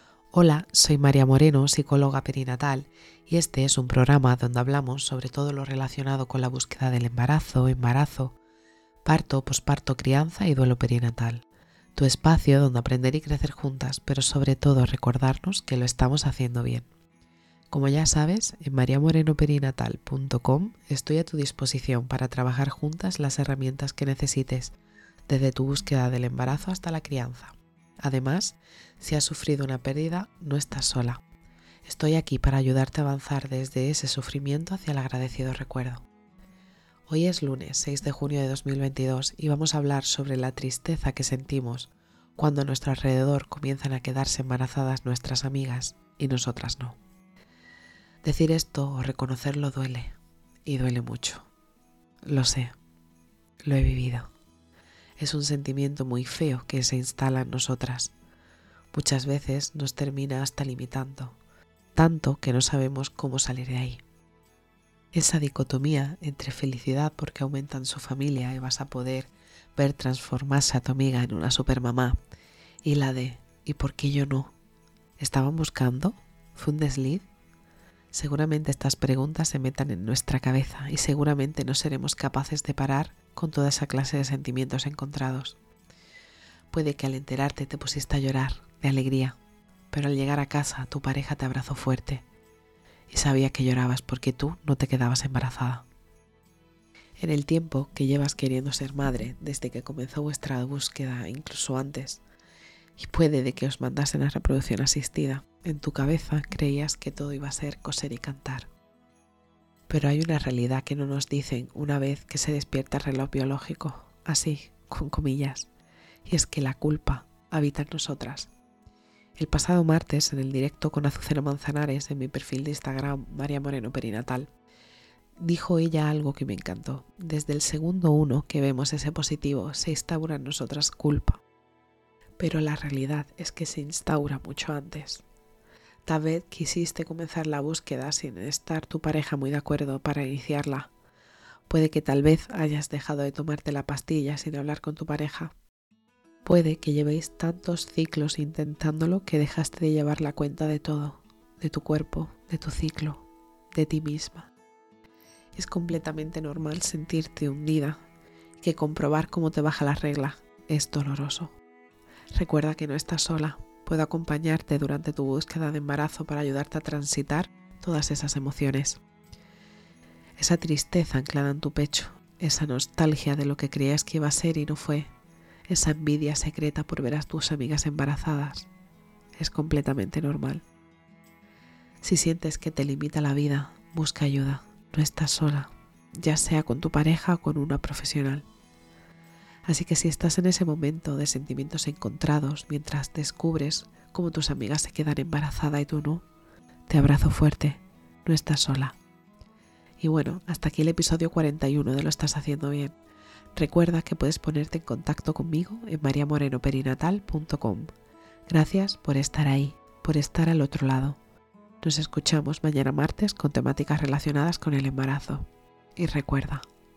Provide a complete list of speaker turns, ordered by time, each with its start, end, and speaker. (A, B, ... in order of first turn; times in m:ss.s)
0:00.3-0:08.4 A
0:09.0-0:11.4 A
0:12.0-0:16.9 A
0:17.7-0:24.8 A
0:25.3-0:31.2 A
0:31.8-0:36.0 A
0:37.1-0:47.0 A
0:48.2-0:50.1 A
0:50.6-0:51.5 A
0:52.3-0:52.8 A
0:53.6-0:54.3 A
0:55.2-0:58.1 A
0:58.9-1:01.4 A
1:02.0-1:04.0 A
1:05.1-1:12.2 A
1:12.8-1:14.5 A
1:15.2-1:17.3 A
1:18.1-1:25.6 A
1:26.7-1:29.4 A
1:29.9-1:32.2 A
1:33.1-1:35.8 A
1:37.2-1:42.2 A
1:43.0-1:48.7 A
1:49.9-1:55.7 A
1:56.2-1:58.5 A
1:59.4-2:04.5 A
2:05.4-2:11.4 A
2:12.4-2:15.2 A
2:16.1-2:20.9 A
2:21.7-2:25.5 A
2:26.4-2:34.5 A
2:35.6-2:38.0 A
2:38.6-2:41.6 A
2:42.3-2:49.0 A
2:50.4-2:55.1 A
2:55.7-2:58.7 A
2:59.4-3:00.6 A
3:02.0-3:08.4 A
3:09.7-3:16.2 A
3:16.9-3:19.0 A
3:20.0-3:23.0 A
3:23.6-3:27.9 A
3:28.5-3:31.2 A
3:31.8-3:36.6 A